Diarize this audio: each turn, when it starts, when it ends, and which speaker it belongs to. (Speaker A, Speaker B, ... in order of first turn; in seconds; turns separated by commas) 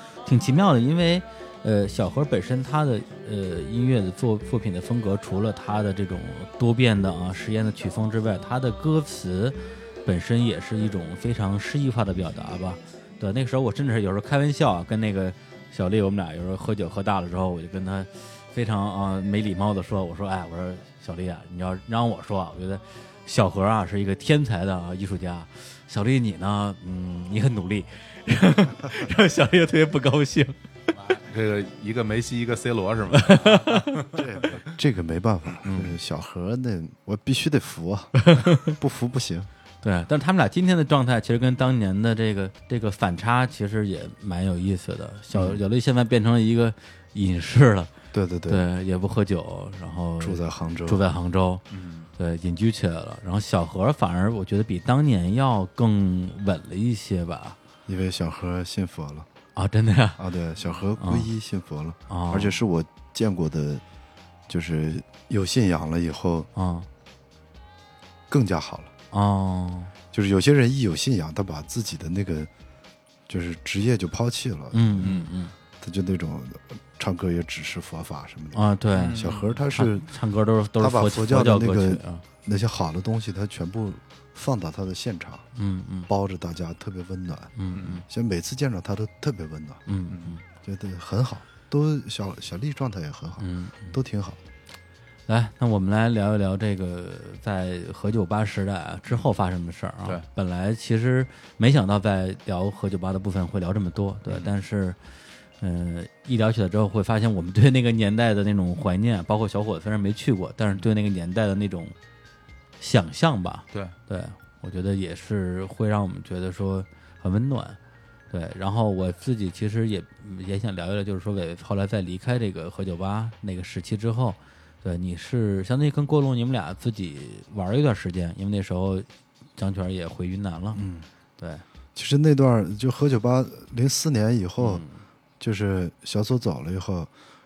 Speaker A: 0.2-30.6, Speaker B: 31.0-34.2, Speaker A: 33.2-33.9, Speaker C: 34.1-39.5, Speaker A: 35.6-35.9, Speaker A: 38.2-38.8, Speaker A: 39.8-47.9, Speaker C: 48.1-48.6, Speaker A: 48.5-51.6, Speaker C: 50.2-51.0, Speaker B: 51.7-52.1, Speaker A: 52.2-57.6, Speaker C: 57.9-59.3, Speaker A: 59.6-60.2, Speaker C: 60.2-63.8, Speaker A: 61.0-61.3, Speaker A: 62.1-62.6, Speaker C: 64.5-66.5, Speaker A: 66.5-66.9, Speaker C: 68.3-68.9, Speaker A: 69.1-69.9, Speaker C: 70.1-72.5, Speaker C: 73.3-75.2, Speaker A: 74.7-75.5, Speaker B: 75.0-75.3, Speaker C: 75.8-80.1, Speaker A: 78.5-82.2, Speaker B: 78.9-79.5, Speaker C: 80.8-85.5, Speaker A: 85.5-86.1, Speaker C: 86.1-89.8, Speaker A: 87.6-88.0, Speaker B: 87.8-88.0, Speaker A: 89.9-90.4, Speaker B: 90.1-90.4, Speaker C: 90.6-94.4, Speaker A: 93.4-94.0, Speaker A: 95.3-105.0, Speaker A: 105.6-112.0, Speaker A: 112.8-117.8, Speaker A: 118.3-130.8, Speaker C: 130.7-131.1, Speaker A: 131.4-131.6, Speaker C: 131.9-134.8, Speaker A: 134.6-135.0, Speaker C: 135.4-137.1